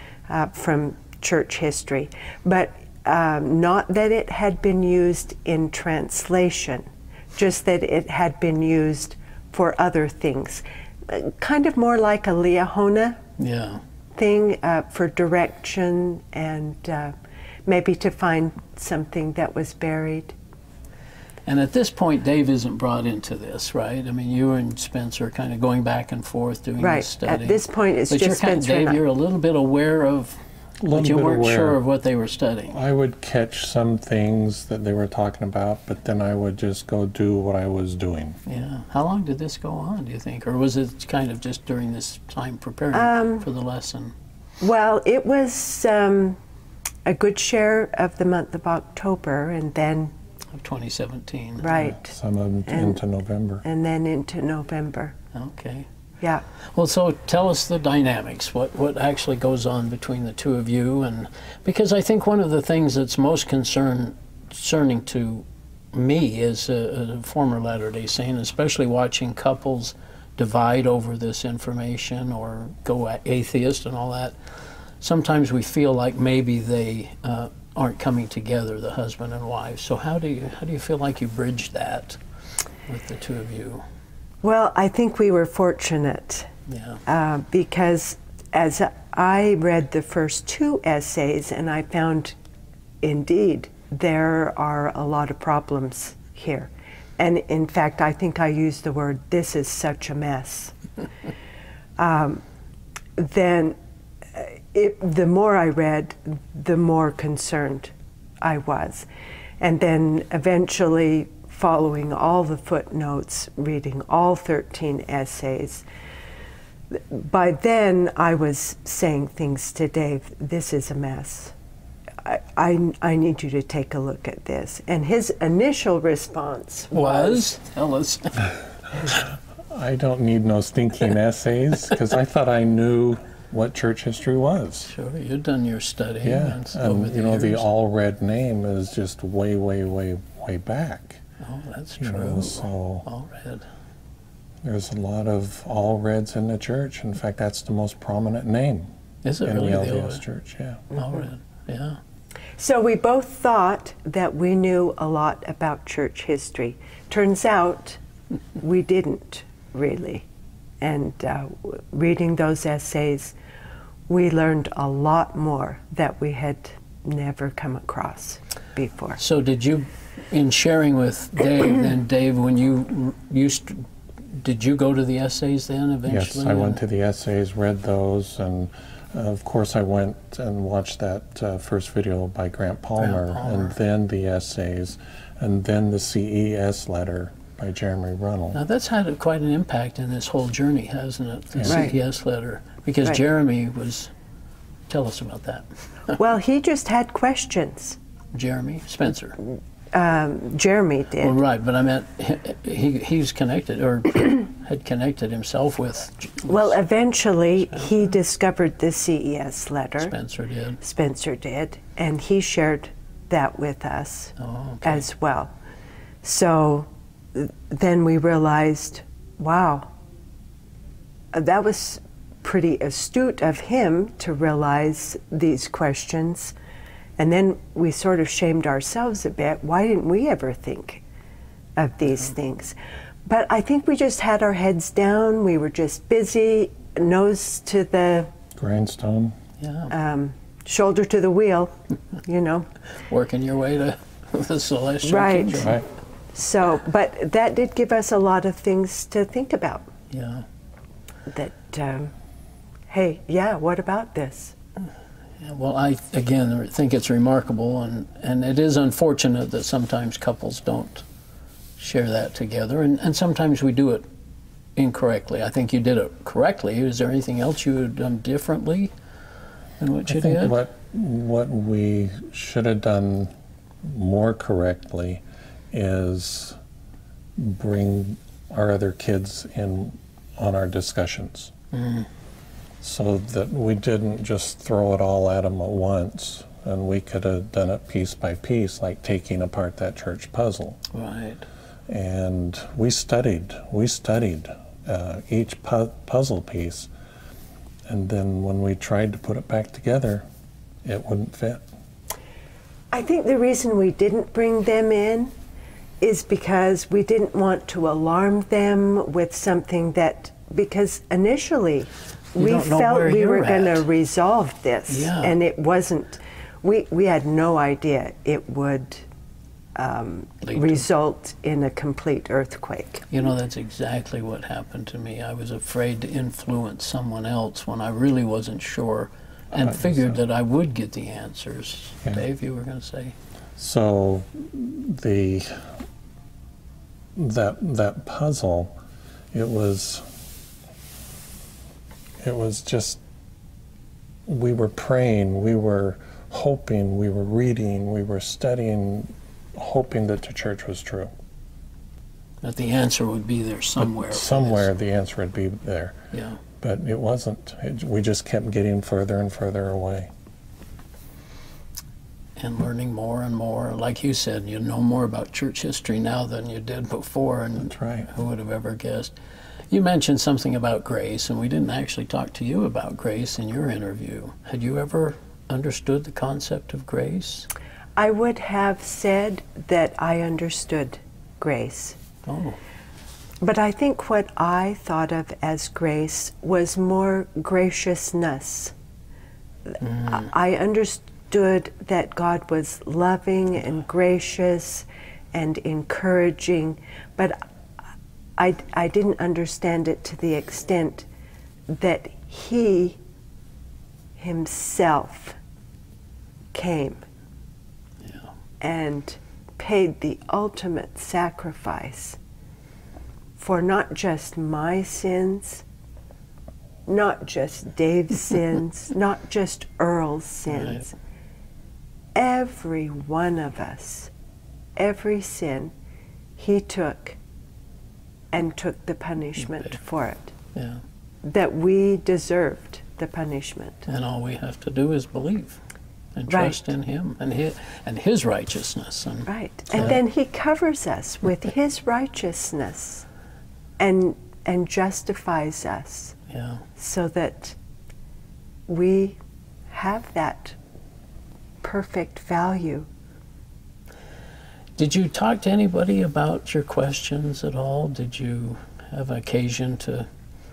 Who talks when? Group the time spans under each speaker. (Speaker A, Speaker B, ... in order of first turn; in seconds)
Speaker A: 0.3-13.2, 14.1-17.1, 17.7-20.3, 26.8-29.0, 42.9-43.5, 44.6-46.4, 47.0-50.1, 51.6-52.1, 52.7-53.0, 53.6-55.1, 84.4-86.5, 87.0-92.3, 93.0-100.8, 102.0-102.4, 103.2-103.8, 104.3-109.0, 109.6-115.8, 116.9-121.5, 122.2-127.5, 152.6-158.0, 158.6-160.2, 160.8-163.3, 164.1-169.2, 191.7-191.9, 196.2-198.0, 199.4-201.4, 206.5-210.1, 210.8-215.5, 216.2-219.9, 221.3-226.5, 227.2-231.0, 231.8-238.3, 239.9-242.7, 245.0-245.7, 246.3-249.9, 251.3-252.1, 252.9-254.5, 302.9-305.3, 306.0-319.0, 319.7-323.1, 377.9-382.0, 383.4-388.7, 390.0-397.4, 398.4-401.1, 401.7-403.0, 404.2-405.4, 406.5-407.0, 408.6-412.2, 413.4-415.6, 416.9-420.9, 422.1-424.1, 424.8-425.7, 426.4-427.2, 428.3-430.3, 431.2-433.9, 436.3-436.6, 439.3-443.0, 443.8-446.1, 446.8-447.6, 448.7-449.2, 449.7-450.6, 451.6-452.9
Speaker B: 13.4-13.8, 21.5-30.4, 30.9-32.8, 38.5-44.1, 50.5-51.7, 55.3-55.9, 56.6-74.3, 75.0-82.2, 82.8-83.8, 86.7-87.0, 126.9-129.2, 134.8-137.7, 141.4-143.7, 149.2-150.2, 150.9-152.0, 169.2-176.8, 183.0-183.7, 188.5-194.1, 194.9-196.2, 198.3-199.4, 201.2-206.7, 210.0-210.8, 214.4-215.0, 239.6-239.9, 243.0-245.8, 250.1-250.4, 255.4-261.0, 261.8-264.1, 264.8-268.9, 269.8-270.6, 281.7-282.1, 290.9-291.4, 312.4-313.8, 314.9-315.4, 320.4-320.8, 323.1-333.1, 352.4-354.7, 356.1-356.4, 362.4-369.1, 369.7-377.5, 382.3-382.6, 389.8-390.3, 408.0-408.3, 420.5-420.8, 429.4-429.8, 430.5-430.8, 433.9-435.6, 436.1-440.0, 446.3-446.6, 454.8-460.1
Speaker C: 30.8-31.8, 32.7-38.4, 51.7-53.6, 129.7-134.9, 136.2-141.2, 142.0-143.1, 144.6-148.9, 149.4-150.9, 176.1-188.6, 238.5-239.3, 245.6-245.8, 270.1-273.3, 273.8-276.6, 277.4-281.5, 282.8-290.8, 291.9-296.9, 297.9-300.2, 300.8-301.6, 329.6-330.2, 333.6-335.7, 337.1-338.7, 339.3-340.1, 342.2-343.0, 344.3-351.1, 353.8-356.0, 356.6-360.1, 367.6-368.1